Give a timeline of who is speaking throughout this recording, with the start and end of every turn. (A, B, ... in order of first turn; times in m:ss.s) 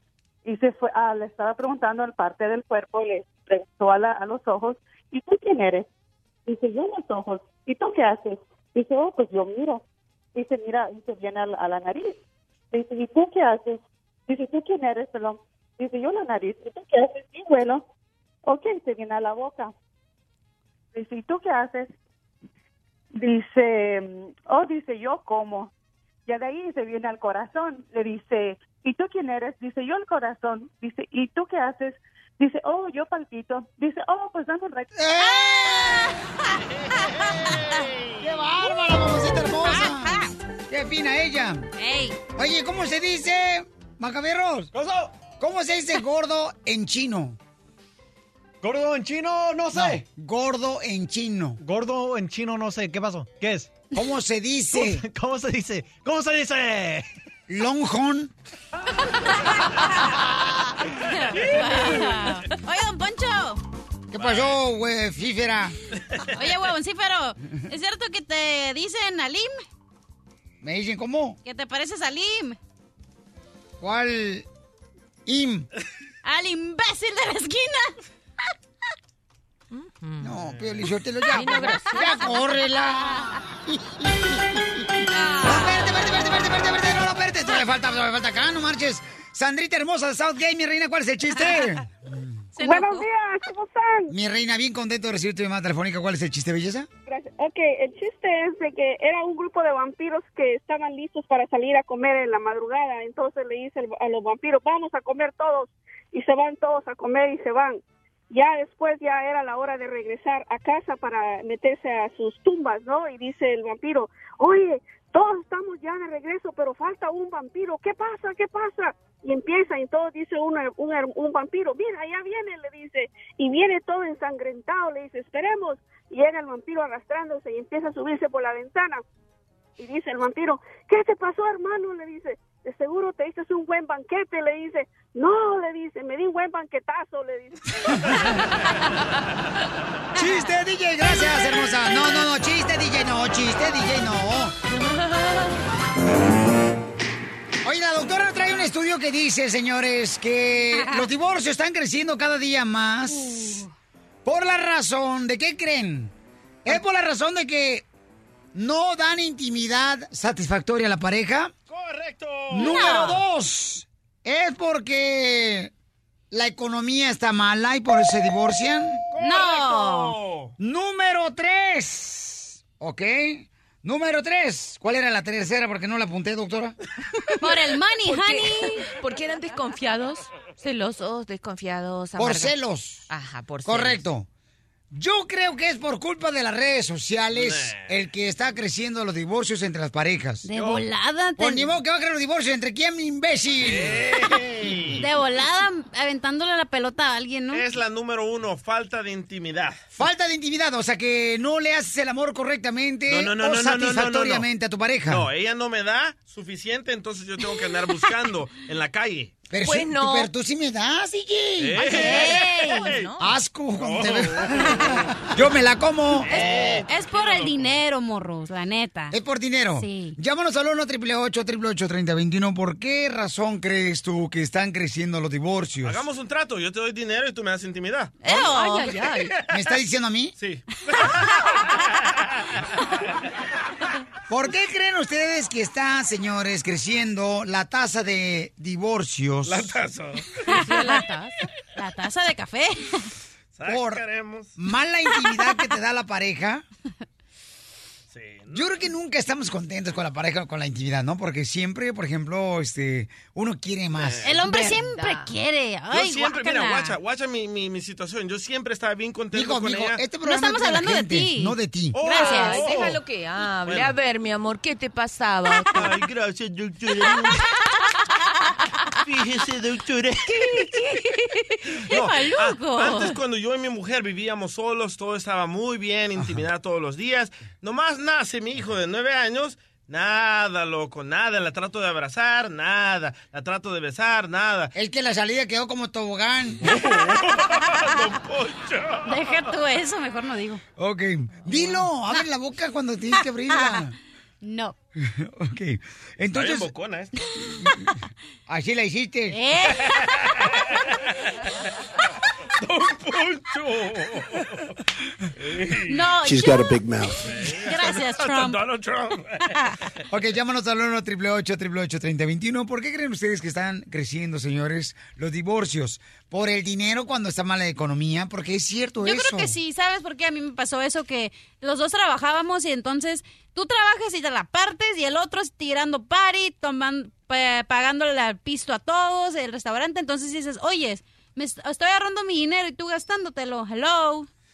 0:00.4-0:05.9 A
0:06.5-0:09.8 A
0:10.4-0:12.2 A
0:12.7-0:17.8 A
0:18.4-0:19.7 A
0:20.9-0:21.9 A
0:23.1-0:25.7 A
0:26.3-0:34.9 A
0:35.0-0:36.1 B
0:35.5-0:36.1 C
0:38.2-0:41.7 B
0:39.6-0:40.4 C
0:41.8-0:42.2 C
0:42.4-0:44.7 B
0:44.7-0:45.1 D
0:45.4-0:47.4 B
0:48.6-0:50.0 D
0:49.7-0:51.6 B
0:51.6-0:53.8 D
0:53.9-0:55.0 B
0:54.7-0:57.1 D
0:57.5-0:58.3 B
1:01.0-1:03.6 C
1:04.1-1:05.8 B
1:04.2-1:04.6 E
1:06.1-1:06.4 E
1:06.3-1:09.6 C
1:10.6-1:11.4 B
1:11.4-1:12.6 C
1:13.8-1:14.5 B
1:15.3-1:15.7 B
1:16.2-1:17.9 C
1:19.7-1:20.4 F
1:20.2-1:32.4 B
1:21.2-1:22.3 F
1:25.2-1:25.8 C
1:32.6-1:33.1 C
1:32.6-1:34.1 G
1:34.1-1:36.9 B
1:37.1-2:09.0 G
2:09.8-2:17.7 G
2:20.2-2:24.5 B
2:27.6-2:33.6 B
2:30.7-2:31.1 C
2:33.1-2:33.7 C
2:34.2-2:36.1 B
2:36.6-2:37.8 B
2:38.5-2:41.5 B
2:41.7-2:42.9 E
2:42.5-2:45.7 B
2:42.5-2:43.2 C
2:46.3-2:49.0 B
2:49.1-2:50.5 E
2:49.2-2:50.2 C
2:50.6-2:56.8 B
2:57.4-2:58.8 C
2:58.0-3:02.6 F
3:02.2-3:03.1 B
3:03.1-3:04.0 F
3:03.6-3:04.3 B
3:04.9-3:10.5 B
3:07.3-3:07.9 E
3:10.4-3:11.7 C
3:10.6-3:10.8 E
3:11.4-3:14.0 B
3:13.6-3:15.1 E
3:14.9-3:17.6 C
3:17.5-3:19.8 E
3:19.9-3:25.3 B
3:23.1-3:24.5 E
3:25.1-3:29.4 E
3:29.5-3:32.0 B
3:29.6-3:30.3 F
3:31.6-3:33.1 E
3:31.8-3:33.0 C
3:31.8-3:33.4 F
3:33.2-3:36.8 B
3:33.8-3:34.9 E
3:36.2-3:37.8 E
3:36.8-3:39.2 C
3:39.1-3:46.0 B
3:39.8-3:40.2 C
3:45.8-3:48.3 E
3:48.2-3:49.0 C
3:48.3-3:49.3 F
3:49.0-3:49.5 E
3:49.5-3:50.4 B
3:50.4-3:52.6 E
3:54.3-3:59.8 B
3:59.4-4:00.5 E
4:00.5-4:01.4 F
4:00.5-4:01.0 C
4:01.8-4:03.1 C
4:03.6-4:04.6 E
4:03.7-4:04.0 B
4:04.6-4:06.6 B
4:08.1-4:08.8 E
4:08.5-4:14.3 B
4:14.0-4:14.4 E
4:14.2-4:17.0 C
4:14.4-4:15.3 F
4:15.9-4:20.0 E
4:19.3-4:22.0 B
4:20.2-4:22.7 C
4:21.9-4:22.9 E
4:22.0-4:25.8 F
4:23.6-4:23.9 E
4:25.7-4:27.4 E
4:29.0-4:30.7 E
4:30.3-4:31.4 F
4:31.9-4:44.7 E
4:31.9-4:33.1 C
4:44.8-4:46.8 B
4:46.6-4:49.2 E
4:49.1-4:50.6 C
4:50.8-4:53.9 B
4:53.5-4:53.9 C
4:54.4-4:54.8 C
4:55.0-4:56.7 B
4:56.3-4:57.1 E
4:57.4-4:57.9 B
4:58.5-4:59.4 B
4:59.3-5:00.0 C
4:59.8-5:00.9 E
5:02.6-5:04.7 E
5:05.4-5:06.1 E
5:05.9-5:06.7 C
5:07.2-5:09.6 E
5:07.6-5:08.6 C
5:10.1-5:19.5 B
5:19.0-5:34.3 C